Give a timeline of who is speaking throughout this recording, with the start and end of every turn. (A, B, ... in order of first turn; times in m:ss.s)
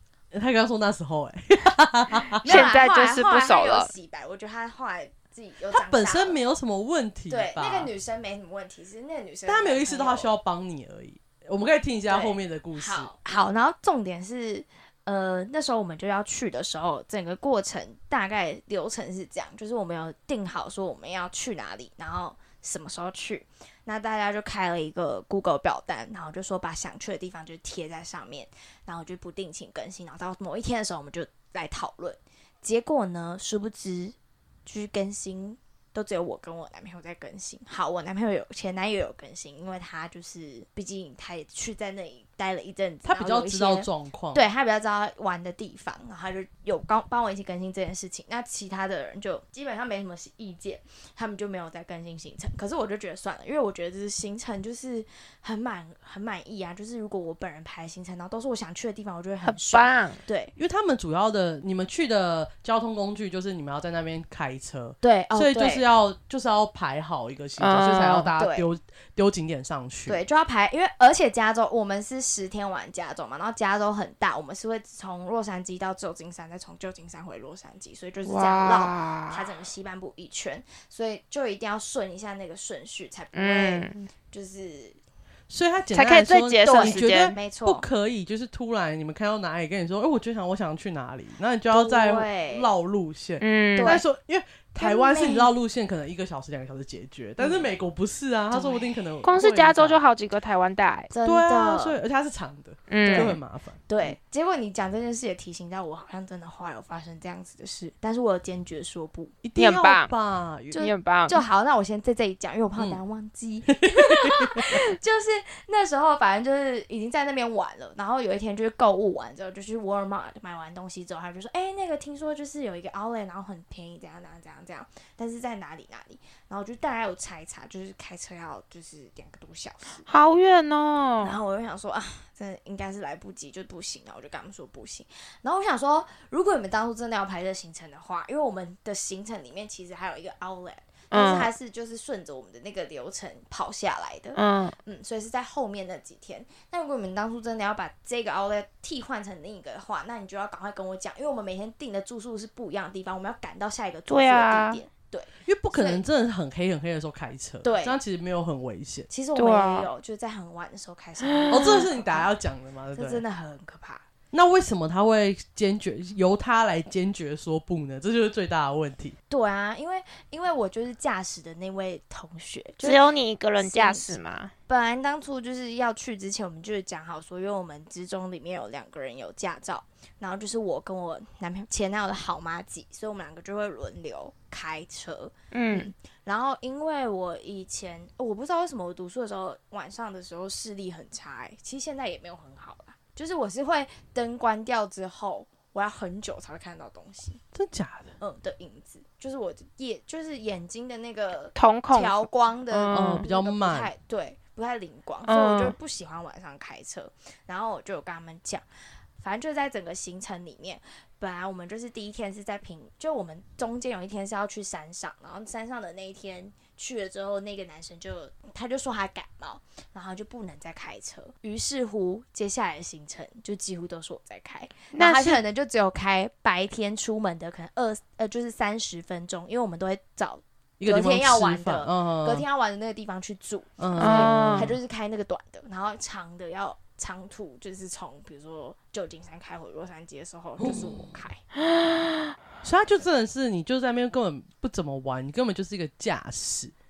0:00.3-0:02.7 A
0:02.3-0:06.4 B
0:02.4-0:03.9 C
0:05.7-0:07.9 A
0:07.3-0:10.3 B
0:09.5-0:13.1 A
0:12.1-1:00.5 B
0:43.0-0:44.5 A
0:59.4-1:00.2 C
1:00.6-1:10.2 A
1:05.0-1:05.8 B
1:07.6-1:08.3 C
1:08.4-1:08.7 B
1:10.1-1:25.0 B
1:18.2-1:19.4 C
1:23.3-1:24.1 C
1:25.5-1:40.0 A
1:25.9-1:27.4 C
1:26.8-1:27.8 B
1:31.7-1:32.7 B
1:33.4-1:34.0 C
1:33.8-1:34.0 B
1:34.8-1:35.5 B
1:37.4-1:37.7 B
1:38.5-1:39.0 B
1:39.2-1:41.1 C
1:41.1-1:42.0 B
1:41.2-1:44.2 A
1:42.9-1:43.4 C
1:43.0-1:49.4 B
1:49.4-1:50.8 A
1:49.6-1:50.1 C
1:50.7-2:10.1 B
1:50.8-1:51.4 C
1:53.7-1:54.8 A
2:10.1-2:11.4 C
2:11.2-2:36.0 B
2:21.1-2:21.5 C
2:24.4-2:24.8 C
2:34.1-2:34.8 C
2:35.4-2:39.1 A
2:37.6-2:38.0 B
2:39.1-2:42.3 B
2:39.4-2:39.9 C
2:41.2-2:41.9 C
2:41.5-2:43.2 A
2:43.0-2:44.1 B
2:44.3-2:49.2 A
2:49.3-3:17.4 B
2:52.8-2:54.5 C
3:05.5-3:05.9 C
3:17.5-3:18.2 A
3:18.2-3:28.7 B
3:21.6-3:23.2 C
3:22.9-3:23.9 A
3:25.3-3:25.8 C
3:29.2-4:01.4 B
3:44.9-3:45.4 C
3:50.8-3:52.4 A
3:53.8-3:54.7 A
3:54.0-3:54.8 C
4:00.6-4:01.1 A
4:02.6-4:06.7 A